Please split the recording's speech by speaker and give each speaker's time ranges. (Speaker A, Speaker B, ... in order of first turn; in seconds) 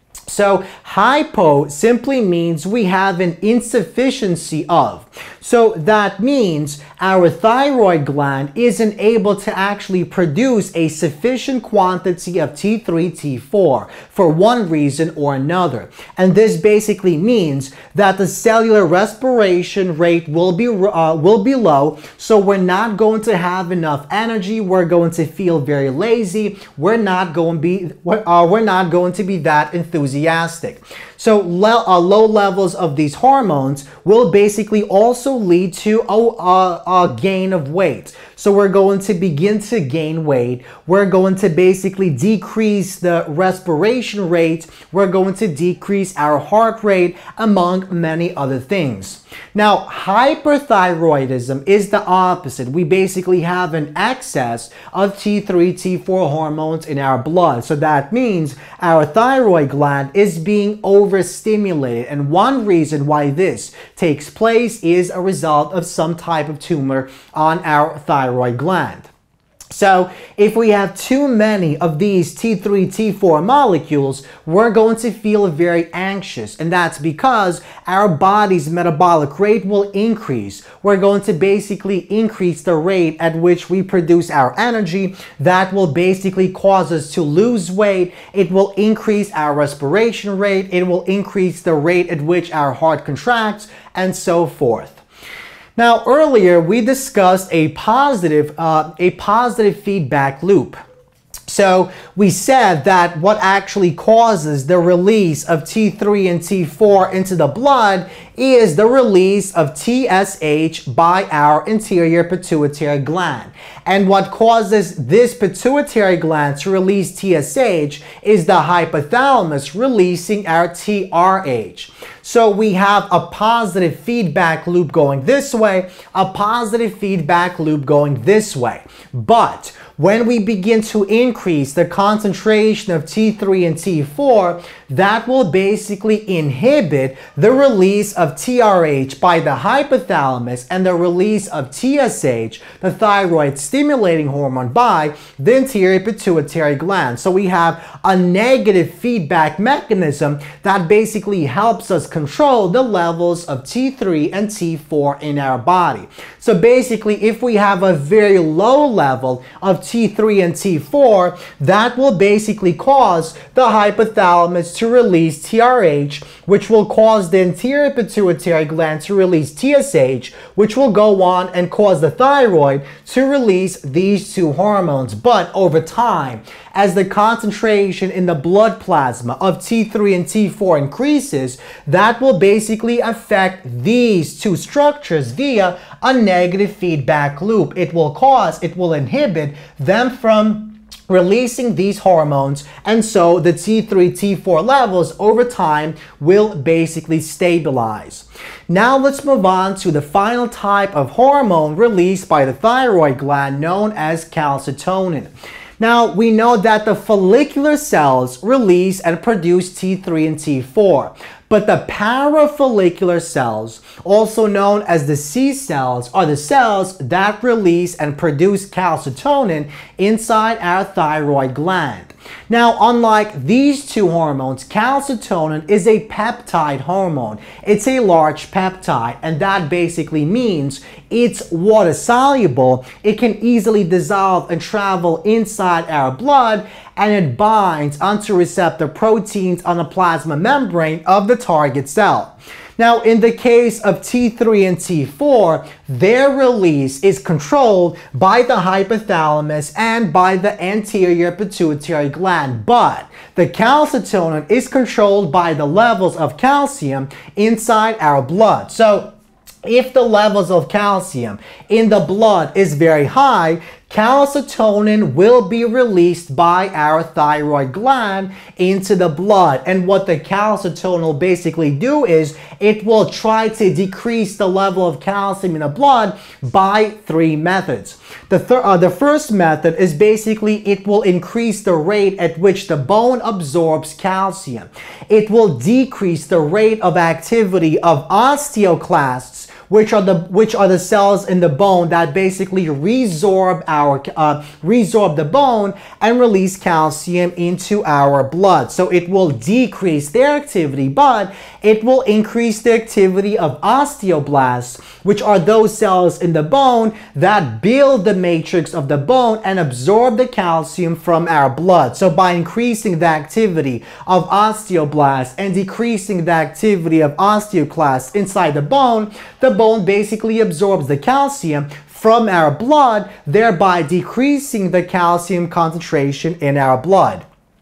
Speaker A: 0.3-69.1, 69.7-95.0, 95.8-100.8, 101.5-259.1, 259.6-327.2